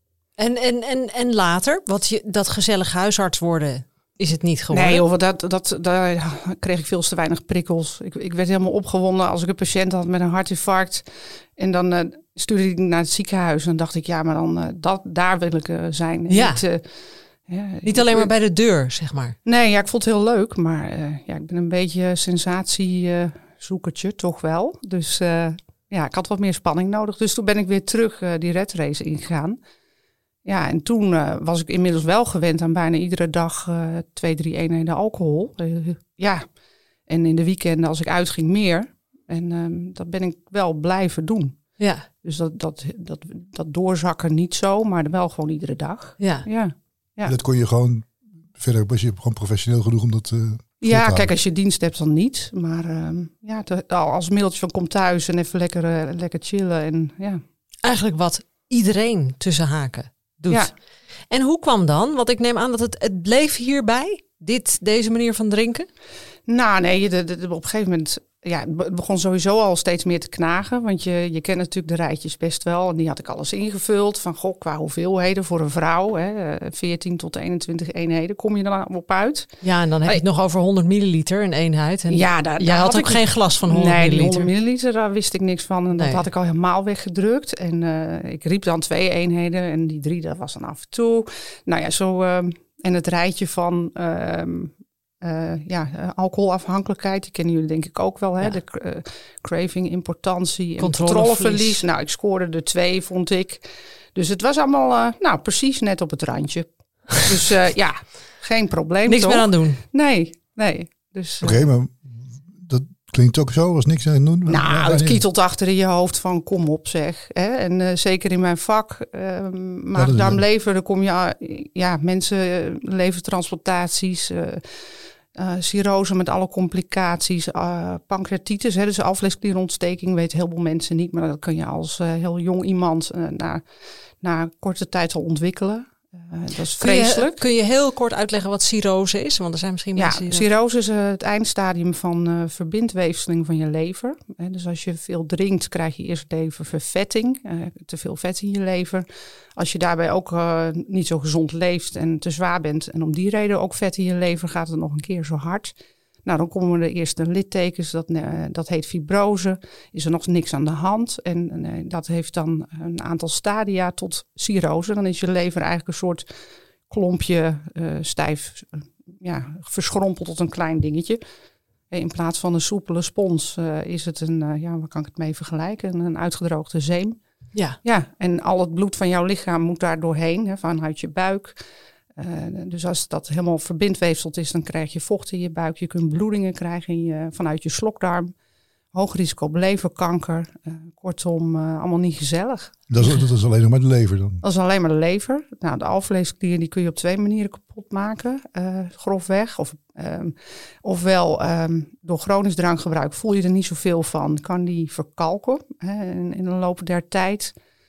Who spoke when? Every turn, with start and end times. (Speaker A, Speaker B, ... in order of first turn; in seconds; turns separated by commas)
Speaker A: 0.4-5.0, Speaker B: 4.7-18.3, Speaker A: 16.3-16.6, Speaker A: 17.8-19.4, Speaker B: 19.4-29.6, Speaker B: 30.4-36.5, Speaker B: 37.0-47.3, Speaker A: 41.8-42.1, Speaker A: 46.2-46.5, Speaker C: 47.2-51.3, Speaker B: 50.8-57.4, Speaker A: 57.8-65.9, Speaker B: 66.5-80.2, Speaker A: 79.6-84.5, Speaker B: 82.1-111.7, Speaker A: 86.0-86.2, Speaker A: 100.8-101.8, Speaker A: 109.1-109.8, Speaker C: 111.4-115.2, Speaker B: 114.5-124.6, Speaker C: 119.9-120.4, Speaker B: 125.3-133.6, Speaker B: 134.2-137.4, Speaker A: 136.8-140.5, Speaker B: 139.9-166.3, Speaker B: 166.9-171.2, Speaker B: 171.9-177.2, Speaker B: 177.8-181.6, Speaker B: 182.1-188.3, Speaker B: 188.9-192.7, Speaker C: 192.9-194.4, Speaker B: 194.4-207.5